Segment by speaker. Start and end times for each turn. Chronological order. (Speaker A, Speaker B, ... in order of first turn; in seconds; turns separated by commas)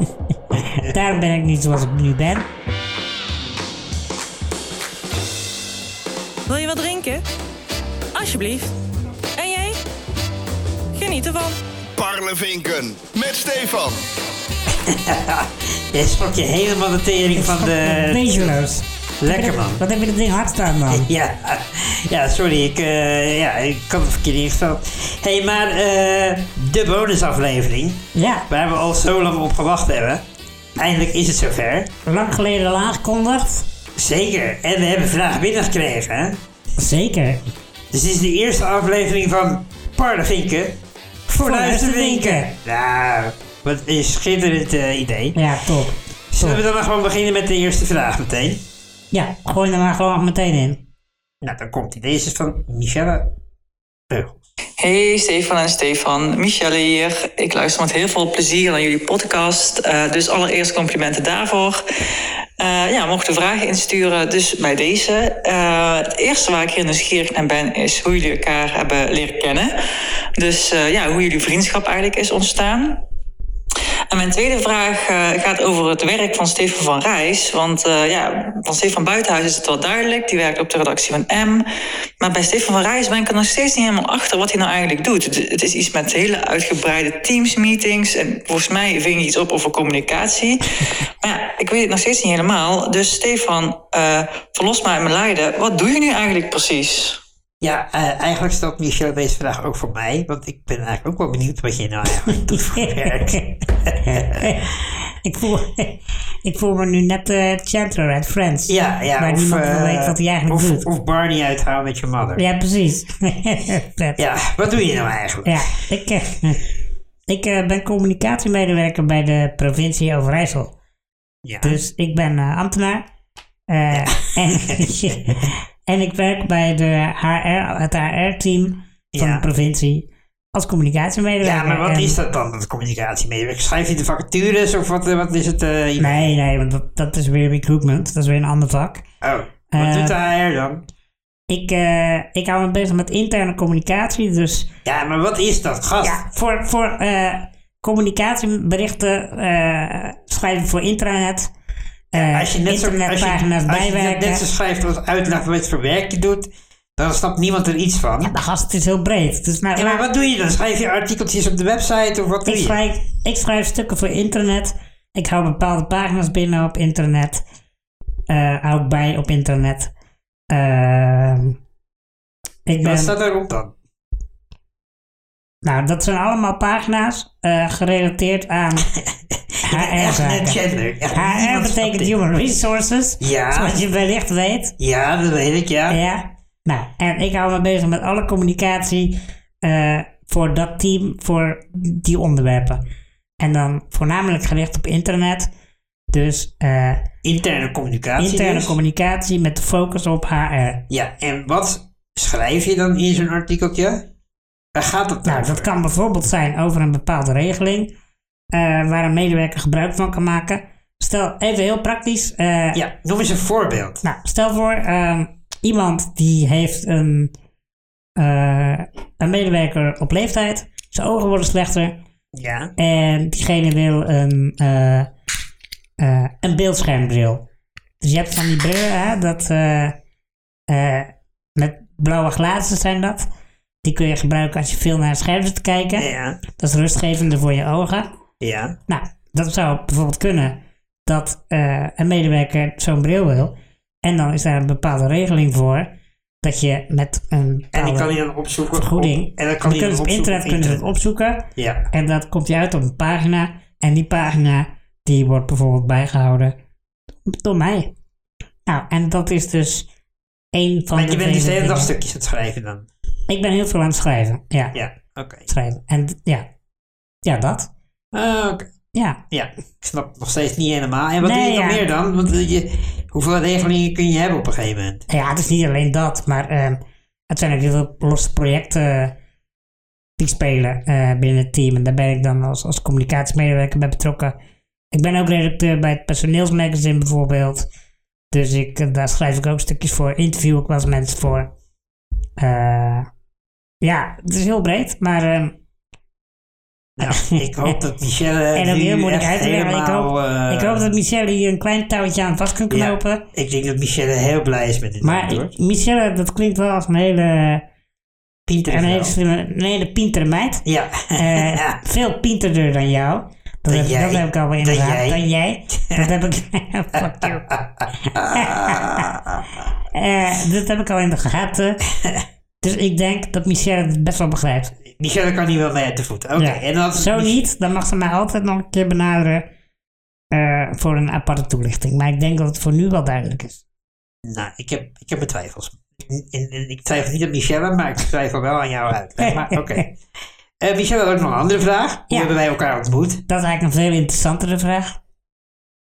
Speaker A: 0.5-0.9, Speaker B: 0.5-2.5, Speaker C: 6.5-7.2, Speaker C: 8.1-8.7, Speaker C: 9.3-9.8, Speaker C: 10.9-11.6, Speaker D: 11.9-14.1, Speaker A: 14.7-18.6, Speaker B: 17.4-21.1, Speaker A: 19.2-19.8, Speaker A: 20.9-30.2, Speaker B: 28.1-28.5, Speaker A: 30.8-31.9, Speaker B: 32.0-33.7, Speaker A: 34.0-36.4, Speaker B: 36.8-37.5, Speaker A: 37.9-45.4, Speaker B: 41.3-42.5, Speaker B: 45.3-46.6, Speaker A: 46.3-48.6, Speaker B: 49.1-50.9, Speaker A: 51.4-53.3, Speaker A: 54.1-54.4, Speaker E: 54.8-61.8, Speaker E: 62.6-69.7, Speaker E: 70.4-73.0, Speaker E: 74.1-81.6, Speaker E: 82.2-97.2, Speaker A: 97.6-104.6, Speaker B: 102.5-110.8, Speaker A: 108.7-112.4, Speaker B: 112.3-114.2, Speaker A: 114.2-115.8, Speaker B: 115.4-116.6, Speaker B: 117.3-120.7, Speaker A: 121.4-121.8, Speaker B: 121.6-123.0, Speaker B: 123.7-132.2, Speaker A: 123.9-125.5, Speaker A: 129.1-129.4, Speaker A: 131.4-136.3, Speaker B: 136.0-139.0, Speaker A: 139.2-140.8, Speaker B: 139.7-140.2, Speaker B: 141.5-144.7, Speaker A: 144.8-146.2, Speaker B: 146.0-151.5, Speaker B: 152.1-154.4, Speaker A: 152.1-158.3, Speaker B: 158.2-160.1, Speaker A: 159.7-162.8, Speaker B: 162.4-167.4, Speaker B: 168.3-169.9, Speaker B: 170.5-171.6, Speaker B: 172.7-173.1, Speaker A: 172.8-173.7, Speaker B: 175.6-178.9, Speaker A: 178.9-182.1, Speaker B: 179.6-180.6, Speaker B: 181.1-184.7, Speaker A: 183.2-183.8, Speaker A: 184.8-186.0, Speaker B: 185.9-192.8, Speaker B: 193.4-195.5, Speaker B: 196.1-197.0, Speaker A: 197.2-198.8, Speaker B: 198.2-200.8, Speaker A: 200.9-204.1, Speaker A: 204.7-205.7, Speaker B: 205.2-207.9, Speaker B: 208.5-212.8, Speaker A: 212.7-214.0, Speaker B: 214.0-217.3, Speaker B: 218.2-222.0, Speaker A: 222.3-222.7, Speaker B: 222.8-225.1, Speaker B: 226.0-227.4, Speaker B: 228.0-229.9, Speaker B: 230.7-233.3, Speaker B: 233.8-238.1, Speaker A: 236.0-236.4, Speaker A: 238.4-238.8, Speaker B: 238.9-245.9, Speaker B: 246.4-248.1, Speaker A: 247.7-250.8, Speaker B: 248.7-256.5, Speaker A: 251.6-251.9, Speaker B: 257.3-257.9, Speaker B: 258.6-259.9, Speaker B: 260.5-261.9, Speaker A: 260.9-262.9, Speaker B: 263.3-264.8, Speaker A: 264.7-265.5, Speaker B: 265.5-266.4, Speaker B: 267.2-267.7, Speaker A: 268.1-268.7, Speaker B: 268.9-269.2, Speaker A: 269.3-275.0, Speaker B: 271.2-271.8, Speaker B: 275.1-279.1, Speaker B: 280.2-284.3, Speaker B: 284.9-287.7, Speaker B: 288.3-291.5, Speaker B: 292.4-293.1, Speaker B: 293.8-295.6, Speaker A: 297.0-300.9, Speaker B: 297.1-297.7, Speaker B: 298.5-303.2, Speaker A: 302.7-305.6, Speaker B: 305.0-307.6, Speaker A: 308.4-309.1, Speaker B: 308.7-317.5, Speaker A: 310.6-311.8, Speaker A: 313.7-316.1, Speaker A: 316.9-319.5, Speaker B: 318.3-319.1, Speaker B: 319.9-321.8, Speaker B: 322.6-324.8, Speaker A: 324.9-327.4, Speaker B: 326.4-329.4, Speaker B: 330.3-333.6, Speaker A: 334.2-339.9, Speaker B: 339.2-339.8, Speaker A: 340.6-343.2, Speaker B: 343.3-345.0